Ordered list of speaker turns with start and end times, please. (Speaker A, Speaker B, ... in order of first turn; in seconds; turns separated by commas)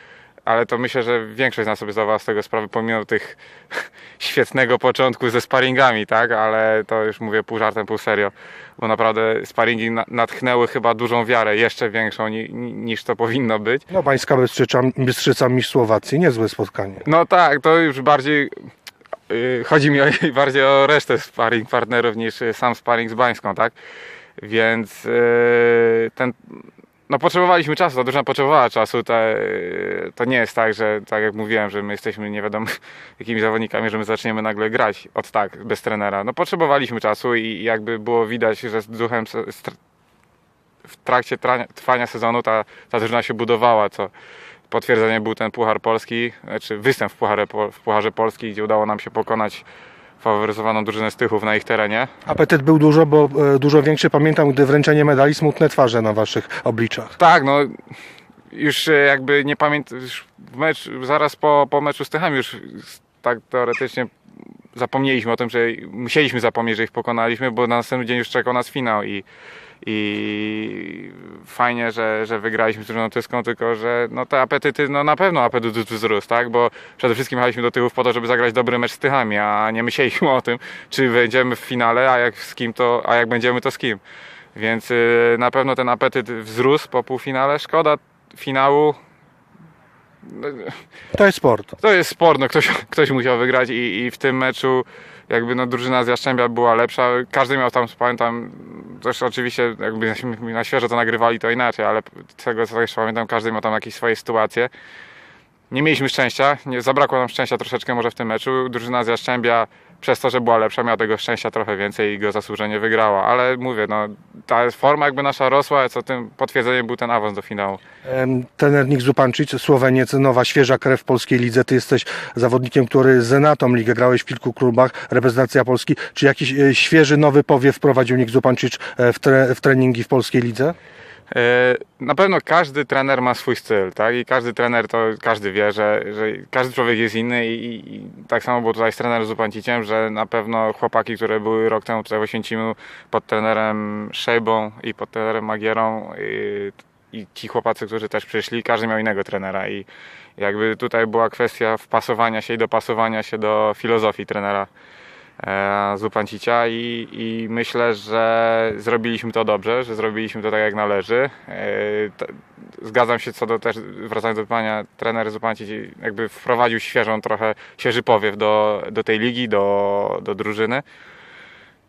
Speaker A: 0.5-13.8, Speaker B: 13.9-17.0, Speaker A: 17.0-18.5, Speaker A: 19.3-23.7, Speaker A: 24.4-26.6, Speaker A: 27.1-39.8, Speaker A: 41.0-44.1, Speaker A: 44.7-49.6, Speaker A: 50.2-52.1, Speaker B: 52.2-57.1, Speaker A: 57.2-57.7, Speaker A: 58.5-64.1, Speaker A: 64.7-69.2, Speaker A: 69.8-84.0, Speaker A: 84.5-89.0, Speaker A: 90.2-90.8, Speaker B: 91.1-91.7, Speaker A: 91.8-104.7, Speaker A: 105.7-117.8, Speaker B: 118.0-130.8, Speaker A: 131.3-149.9, Speaker A: 150.4-154.7, Speaker A: 155.4-170.8